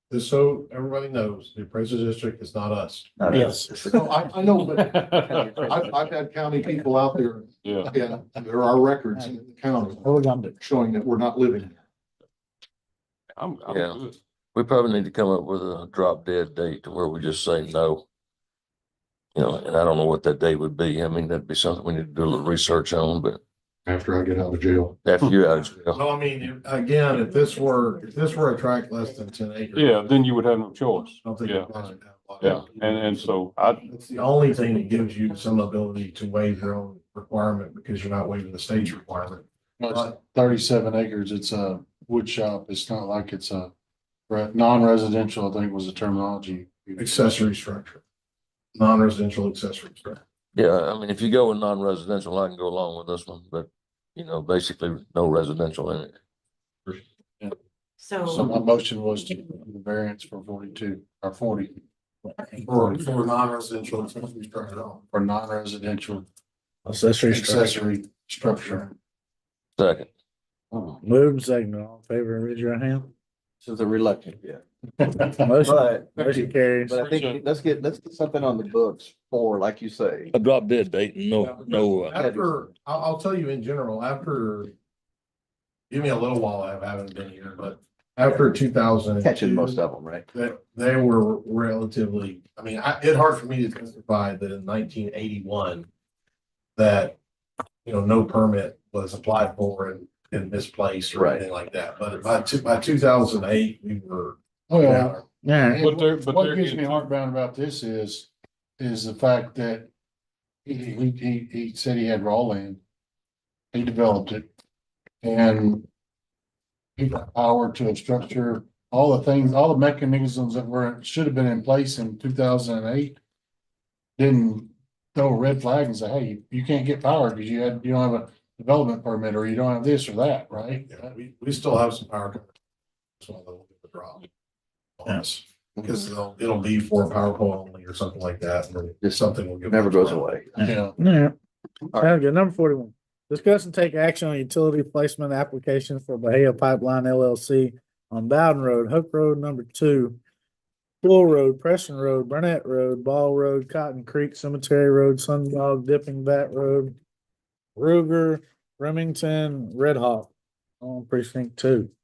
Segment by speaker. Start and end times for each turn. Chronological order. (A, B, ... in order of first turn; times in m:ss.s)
0:00.1-0:03.3 A
0:03.2-0:04.1 B
0:03.3-0:03.7 C
0:03.3-0:11.8 D
0:04.7-0:05.9 C
0:05.3-0:05.8 B
0:07.6-0:07.9 C
0:10.0-0:10.5 E
0:13.4-0:14.2 C
0:13.7-0:14.0 F
0:14.5-0:18.1 F
0:19.3-0:23.4 F
0:23.8-0:25.0 D
0:25.0-0:26.0 F
0:25.9-0:30.0 A
0:29.8-0:31.7 C
0:31.2-0:40.2 A
0:32.4-0:33.8 C
0:39.8-0:43.7 G
0:44.3-0:47.4 G
0:47.0-0:48.0 A
0:48.7-0:50.2 A
0:50.5-0:56.2 F
0:58.2-1:01.8 G
1:02.5-1:03.3 G
1:03.3-1:05.0 A
1:04.0-1:06.2 G
1:06.8-1:07.8 E
1:07.3-1:08.9 G
1:09.8-1:10.1 F
1:11.0-1:13.1 E
1:13.6-1:14.6 B
1:15.4-1:20.3 B
1:15.4-1:17.0 E
1:17.0-1:17.3 G
1:20.3-1:22.2 F
1:21.4-1:24.7 A
1:22.1-1:22.5 B
1:25.9-1:35.9 A
1:29.2-1:30.2 B
1:36.8-1:37.2 A
1:37.8-1:44.4 A
1:41.2-1:41.4 B
1:44.7-1:49.9 G
1:44.9-1:45.8 E
1:44.9-1:45.2 A
1:45.8-1:47.1 C
1:50.6-1:52.8 G
1:53.7-1:54.5 G
1:55.2-1:55.8 G
1:57.0-2:03.2 G
2:04.2-2:11.1 G
2:10.9-2:12.5 A
2:13.2-2:14.3 A
2:15.0-2:20.3 A
2:19.0-2:20.6 B
2:20.6-2:21.0 G
2:21.0-2:21.3 E
2:22.0-2:30.2 E
2:31.0-2:37.0 E
2:37.8-2:41.9 E